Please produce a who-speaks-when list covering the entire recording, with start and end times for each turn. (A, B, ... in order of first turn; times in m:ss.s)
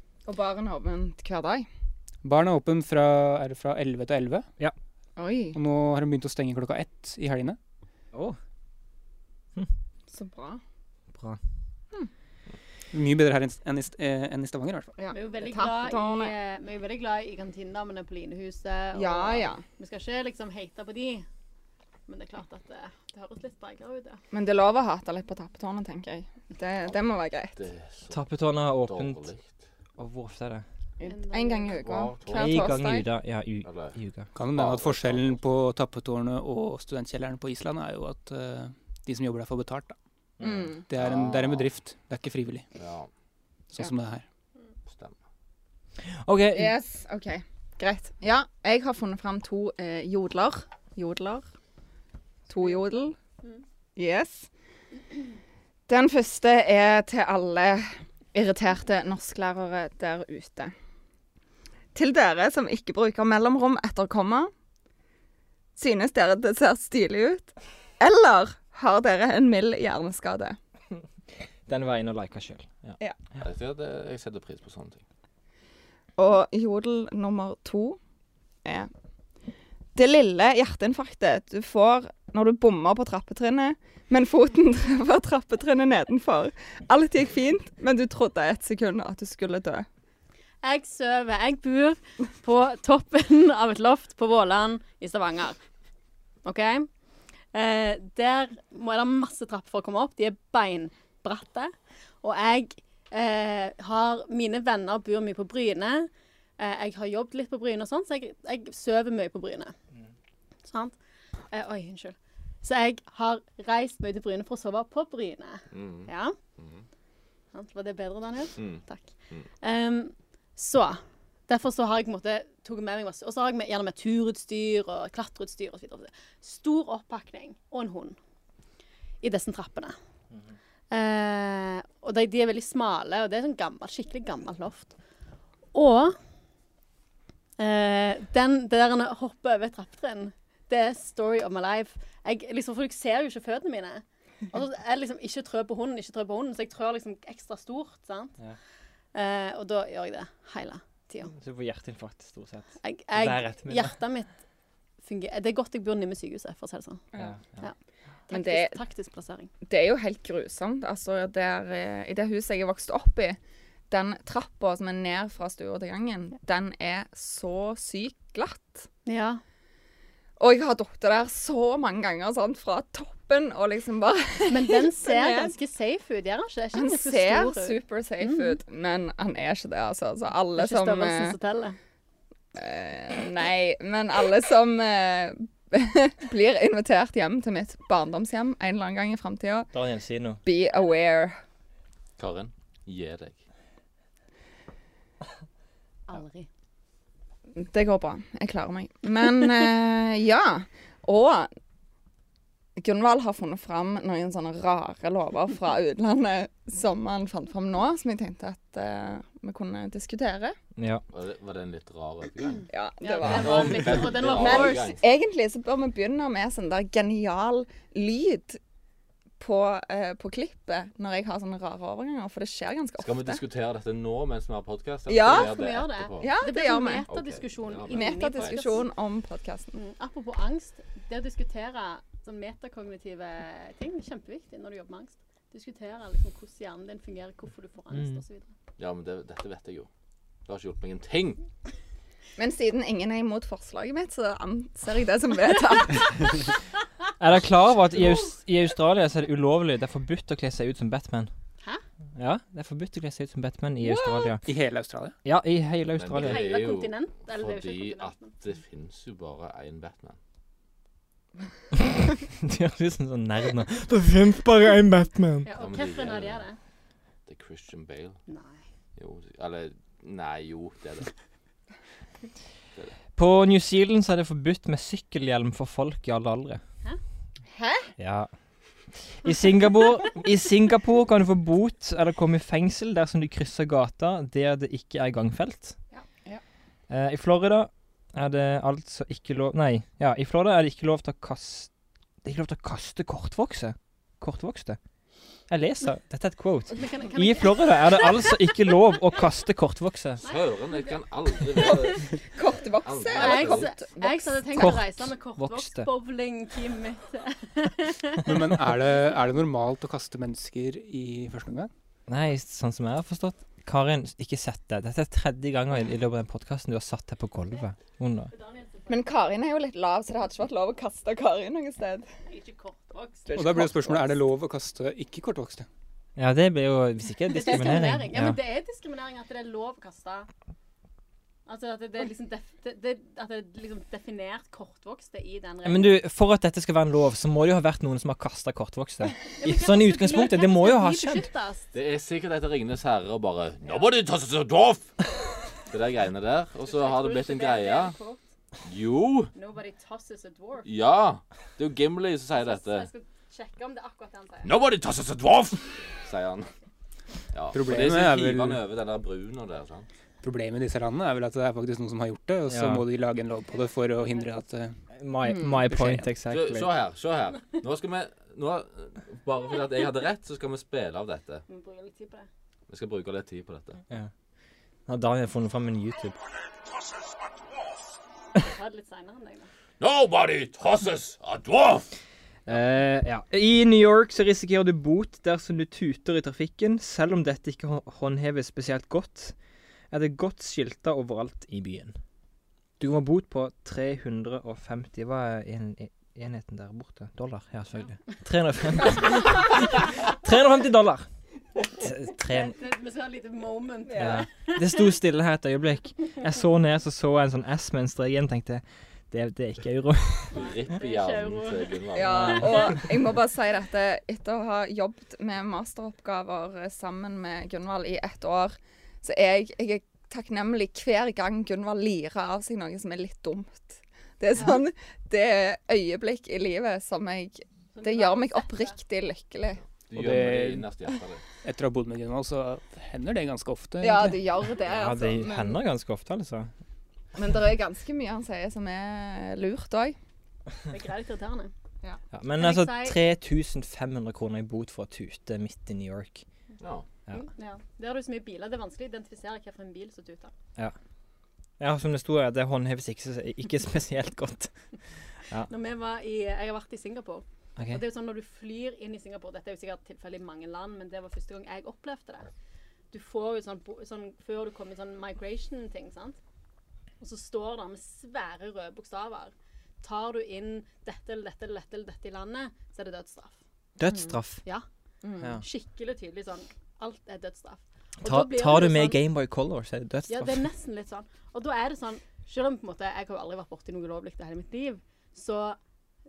0:00.2-0:01.7 A
0:02.2-0:04.5 B
0:05.2-0:05.6 A
0:05.5-0:07.6 B
0:08.1-0:08.4 C
0:10.1-0:10.6 A
0:11.1-0:11.4 C
0:12.9-0:14.9 B
0:15.0-0:16.3 A
0:15.1-0:21.2 D
0:18.9-0:19.6 A
0:22.1-0:24.2 D
0:24.3-0:27.6 A
0:27.6-0:28.2 E
0:28.1-0:29.3 C
0:28.8-0:29.6 E
0:30.0-0:30.6 C
0:31.0-0:33.1 A
0:31.0-0:31.8 D
0:31.7-0:32.7 E
0:32.3-0:34.3 C
0:33.6-0:34.0 E
0:34.3-0:40.0 B
0:34.5-0:35.4 E
0:40.4-0:40.7 C
0:40.4-0:40.8 A
0:40.9-0:42.6 B
0:40.9-0:41.7 E
0:42.8-0:43.1 E
0:43.7-0:44.2 B
0:44.9-0:45.1 E
0:46.0-0:46.7 C
0:46.5-0:51.4 A
0:52.5-0:53.2 A
0:54.0-0:54.5 A
0:55.9-1:00.7 A
1:01.9-1:04.5 A
1:05.8-1:10.6 A
1:11.7-1:13.4 C
1:13.4-1:15.0 E
1:16.2-1:18.0 A
1:18.6-1:18.9 A
1:19.9-1:29.9 A
1:30.6-1:35.6 D
1:36.4-1:36.9 D
1:37.5-1:49.7 D
1:50.7-1:51.0 D
1:51.5-1:56.4 D
1:55.7-1:56.8 E
1:57.5-2:08.2 D
1:58.6-1:59.5 E
2:09.2-2:10.0 D
2:10.9-2:14.9 D
2:15.7-2:16.2 D
2:17.6-2:28.4 D
2:29.1-2:31.3 D
2:31.3-2:33.9 C
2:32.8-2:34.3 D
2:35.0-2:37.0 D
2:37.2-2:37.6 C
2:38.3-2:39.5 D
2:38.3-2:38.8 A
2:39.6-2:43.4 A
2:43.9-2:48.9 A
2:49.0-2:49.4 D
2:50.4-2:55.5 A
2:54.5-2:58.6 D
2:56.7-3:01.4 A
3:00.6-3:01.8 D
3:02.5-3:09.7 A
3:09.7-3:10.4 C
3:10.4-3:11.4 A
3:12.2-3:13.4 E
3:16.1-3:16.5 D
3:17.5-3:21.5 A
3:22.8-3:30.6 A
3:30.8-3:31.0 C
3:31.1-3:32.6 E
3:32.7-3:38.6 A
3:33.0-3:35.0 D
3:33.2-3:35.0 E
3:39.4-3:43.4 A
3:43.0-3:46.3 E
3:45.1-3:45.5 A
3:45.3-3:48.9 D
3:46.2-3:47.0 A
3:47.1-3:48.7 E
3:47.9-3:49.8 A
3:49.8-3:58.5 D
3:57.9-3:58.2 C
3:58.8-3:59.9 E
4:00.4-4:01.4 E
4:02.4-4:06.5 A
4:07.2-4:11.3 C
4:12.2-4:14.4 C
4:14.4-4:15.2 B
4:15.2-4:16.4 C
4:15.9-4:20.2 E
4:16.2-4:18.4 D
4:22.3-4:25.5 C
4:25.4-4:26.6 D
4:25.6-4:26.4 E
4:27.3-4:28.2 E
4:28.3-4:28.6 D
4:29.0-4:31.1 E
4:33.2-4:36.6 C
4:37.5-4:37.9 A
4:38.0-4:38.3 C
4:39.1-4:45.8 C
4:46.9-4:51.7 C
4:52.2-4:54.8 C
4:55.5-5:00.2 C
4:56.8-4:58.3 D
5:00.2-5:01.0 D
5:00.2-5:02.1 E
5:01.6-5:04.8 A
5:02.8-5:03.7 E
5:03.1-5:08.4 D
5:04.6-5:05.9 C
5:08.2-5:11.7 B
5:12.1-5:18.3 C
5:18.3-5:19.1 D
5:18.9-5:22.1 A
5:22.3-5:23.3 D
5:23.3-5:24.2 A
5:23.3-5:25.7 B
5:26.2-5:28.4 C
5:27.3-5:30.3 D
5:31.4-5:36.0 D
5:35.6-5:41.3 C
5:39.4-5:41.7 D
5:41.7-5:44.9 E
5:43.6-5:43.9 D
5:45.7-5:48.0 E
5:46.6-5:48.2 D
5:48.6-5:49.3 E
5:49.4-5:50.7 D
5:50.6-5:52.9 E
5:52.4-5:54.5 D
5:54.4-5:56.5 E
5:57.3-5:59.9 E
5:57.5-5:58.6 B
6:00.2-6:04.8 B
6:02.5-6:02.8 C
6:04.9-6:06.7 C
6:05.6-6:06.1 B
6:06.3-6:11.4 E
6:11.5-6:12.3 D
6:12.7-6:13.8 E
6:14.9-6:16.2 C
6:18.4-6:19.5 D
6:19.8-6:21.9 E
6:22.5-6:29.4 C
6:29.9-6:32.0 C
6:32.8-6:41.1 C
6:41.8-6:42.5 C
6:42.3-6:44.8 D
6:44.0-6:50.4 C
6:50.3-6:52.8 D
6:50.3-6:52.9 E
6:51.9-7:09.6 A
7:07.8-7:08.8 D
7:09.9-7:11.2 E
7:09.9-7:10.7 B
7:11.4-7:14.2 B
7:13.8-7:15.6 A
7:14.7-7:16.5 C
7:17.1-7:20.0 A
7:20.7-7:21.5 D
7:22.1-7:26.2 C
7:22.4-7:23.0 D
7:26.6-7:26.8 E
7:27.1-7:30.3 D
7:31.6-7:34.6 C
7:35.5-7:42.3 D
7:42.9-7:46.2 D
7:47.0-7:54.6 D
7:53.8-7:54.4 C
7:55.0-7:55.3 A
7:55.3-7:59.0 D
7:58.0-8:00.4 C
8:00.1-8:05.6 D